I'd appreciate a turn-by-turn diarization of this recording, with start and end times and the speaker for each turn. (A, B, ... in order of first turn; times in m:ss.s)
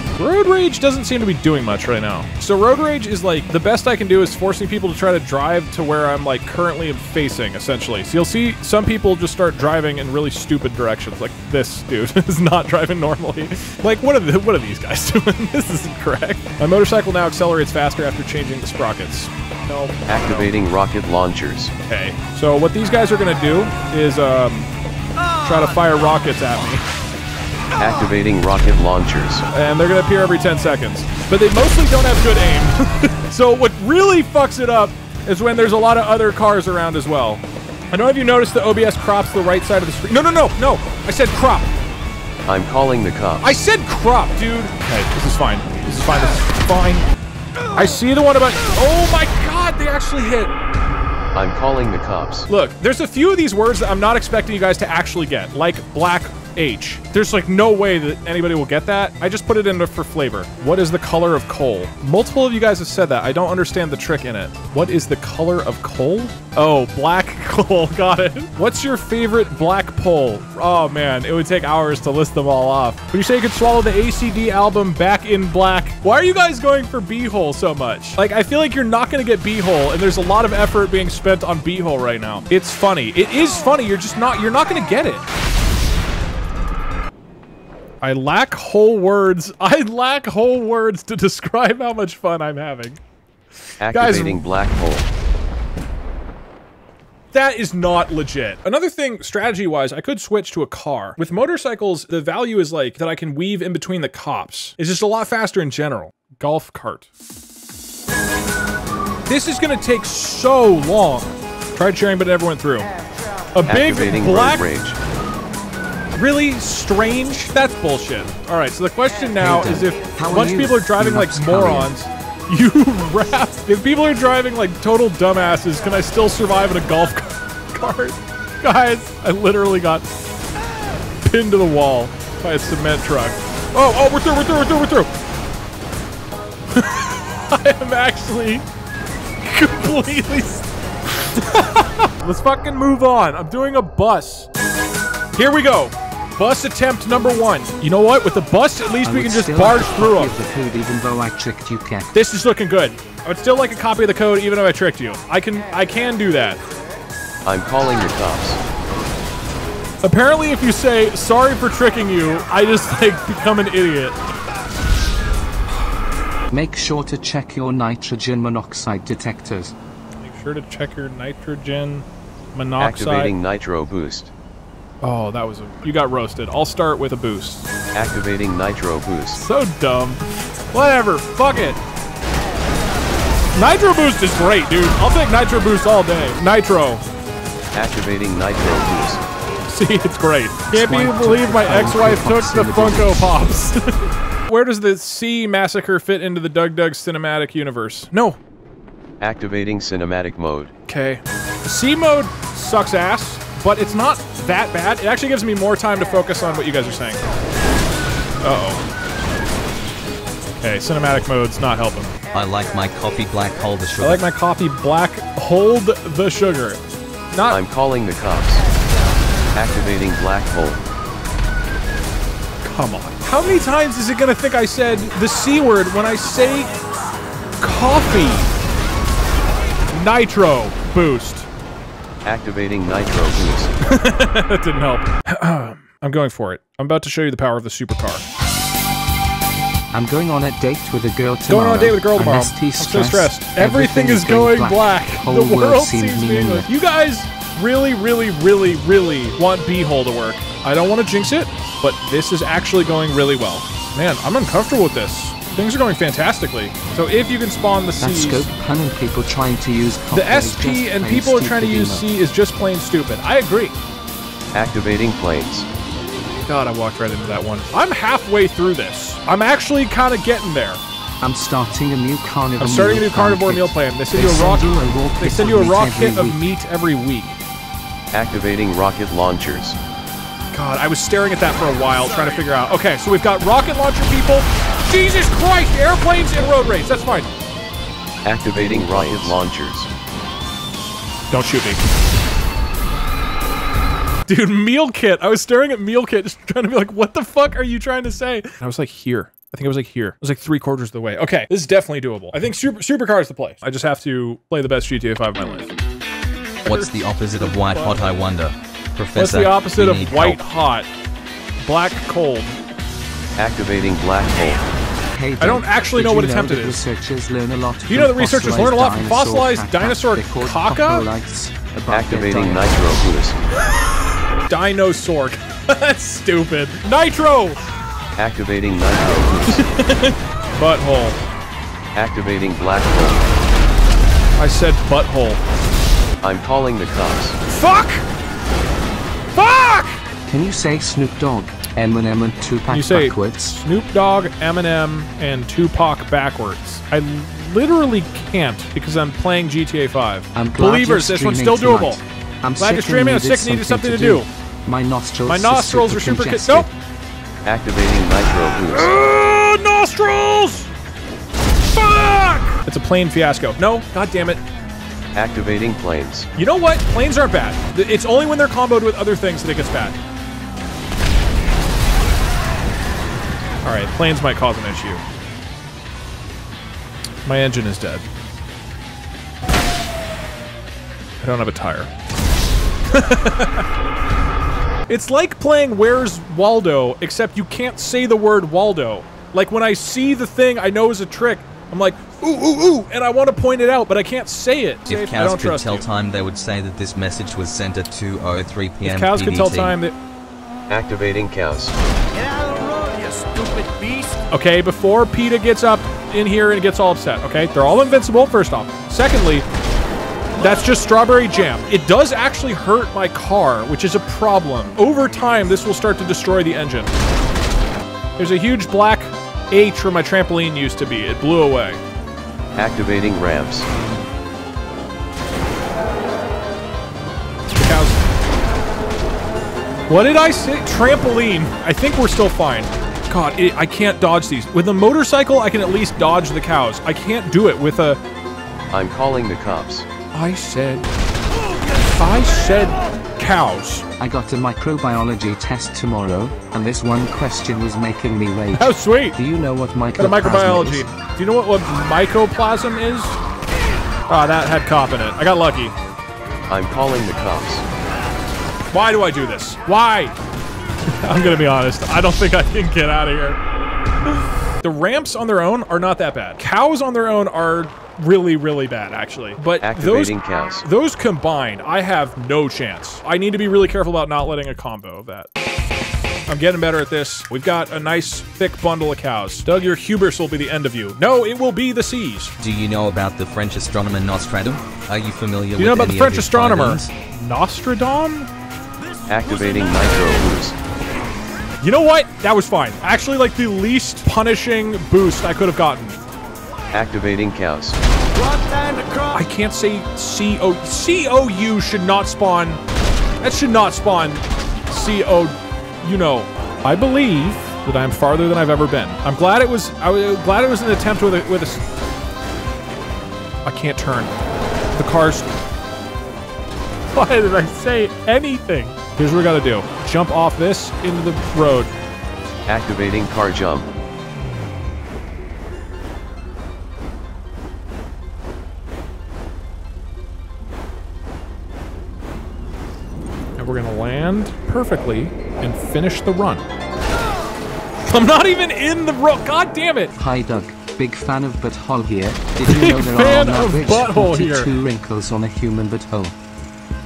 0:00.1-0:20.5 A
0:20.1-0:21.7 B
0:21.9-0:24.7 A
0:25.4-0:26.8 A
0:27.8-0:29.4 B
0:29.5-0:41.7 A
0:42.5-0:43.6 B
0:43.4-0:47.1 A
0:47.7-0:50.5 A
0:51.4-0:52.5 B
0:52.5-1:25.2 A
1:28.0-1:33.0 A
1:33.8-1:35.1 B
1:33.9-1:34.4 A
1:37.3-1:47.1 A
1:49.3-1:52.9 A
1:53.5-1:54.6 A
1:53.7-1:55.0 B
1:56.2-2:10.1 A
1:59.4-2:01.9 C
2:11.2-2:15.1 A
2:16.7-2:18.6 A
2:19.4-2:20.7 A
2:21.3-2:24.5 A
2:25.3-2:30.3 A
2:29.0-2:32.2 C
2:32.1-2:36.6 A
2:37.4-2:38.6 B
2:40.0-2:44.2 A
2:46.5-2:49.7 C
2:50.2-2:53.3 A
2:52.8-2:54.3 B
2:55.0-2:57.7 A
2:57.9-2:59.4 B
2:59.3-3:01.8 A
3:03.6-3:07.0 A
3:07.7-3:09.2 B
3:09.7-3:18.4 A
3:10.7-3:13.4 C
3:19.2-3:20.7 B
3:20.9-3:27.2 A
3:28.4-3:28.8 A
3:30.6-3:32.1 A
3:32.3-3:34.2 D
3:34.0-3:37.6 A
3:37.5-3:38.6 B
3:39.5-3:40.8 B
3:42.6-3:46.7 A
3:47.6-3:48.5 A
3:49.9-3:51.5 A
3:52.2-3:53.7 B
3:53.8-3:58.2 A
3:59.9-4:06.7 C
4:01.5-4:18.5 A
4:18.0-4:22.1 C
4:20.1-4:23.8 A
4:24.5-4:25.7 B
4:26.5-4:30.8 A
4:31.2-4:36.4 C
4:32.6-4:37.4 A
4:38.1-4:39.8 B
4:40.5-4:47.3 A
4:48.2-4:49.9 B
4:48.8-4:49.4 A
4:51.3-4:51.8 A
4:54.3-5:05.7 A
5:06.6-5:10.4 D
5:06.7-5:08.1 A
5:09.2-5:10.9 A
5:11.6-5:12.6 A
5:13.4-5:14.6 B
5:15.1-5:22.8 C
5:15.4-5:16.8 A
5:17.9-5:21.1 A
5:21.9-5:23.4 B
5:24.5-5:27.6 A
5:28.2-5:29.6 B
5:29.5-5:31.2 A
5:31.9-5:33.3 B
5:34.4-5:35.4 A
5:36.2-5:37.4 B
5:37.5-5:38.0 A
5:39.3-5:40.0 A
5:40.3-5:43.6 C
5:42.7-5:52.0 A
5:50.3-5:56.7 C
5:52.6-5:54.3 A
5:55.2-5:56.7 A
5:57.4-5:58.9 B
5:58.5-6:00.7 A
6:01.7-6:04.4 A
6:05.1-6:06.3 B
6:06.4-6:10.0 A
6:13.6-6:15.0 A
6:17.2-6:18.0 A
6:21.2-6:21.9 A
6:22.9-6:23.6 A
6:24.9-6:35.9 A
6:34.9-6:39.8 D
6:38.8-6:40.0 A
6:40.7-6:41.8 B
6:44.3-6:49.5 A
6:50.4-6:56.9 A
6:58.2-7:01.8 A
7:02.6-7:03.7 B
7:07.5-7:08.0 A
7:09.9-7:18.0 A
7:18.7-7:19.9 B
7:20.1-7:20.9 A
7:21.8-7:23.8 A
7:24.0-7:30.9 C
7:28.6-7:29.2 A
7:30.0-7:33.2 A
7:34.1-7:35.8 A
7:36.5-7:37.6 B
7:38.7-7:40.2 A
7:41.0-7:43.4 A
7:44.6-7:55.3 A
7:49.6-7:50.7 B
7:56.3-8:02.3 A
8:02.4-8:06.9 D
8:05.6-8:08.3 A
8:09.1-8:10.6 B
8:11.6-8:16.0 A
8:16.7-8:17.8 B
8:19.1-8:22.6 A
8:23.2-8:31.6 A
8:33.4-8:34.1 A
8:34.7-8:35.3 A
8:36.9-8:41.7 A
8:42.5-8:43.7 B
8:53.4-8:56.4 A
8:57.9-8:59.9 A
9:00.0-9:06.2 C
9:02.4-9:04.5 A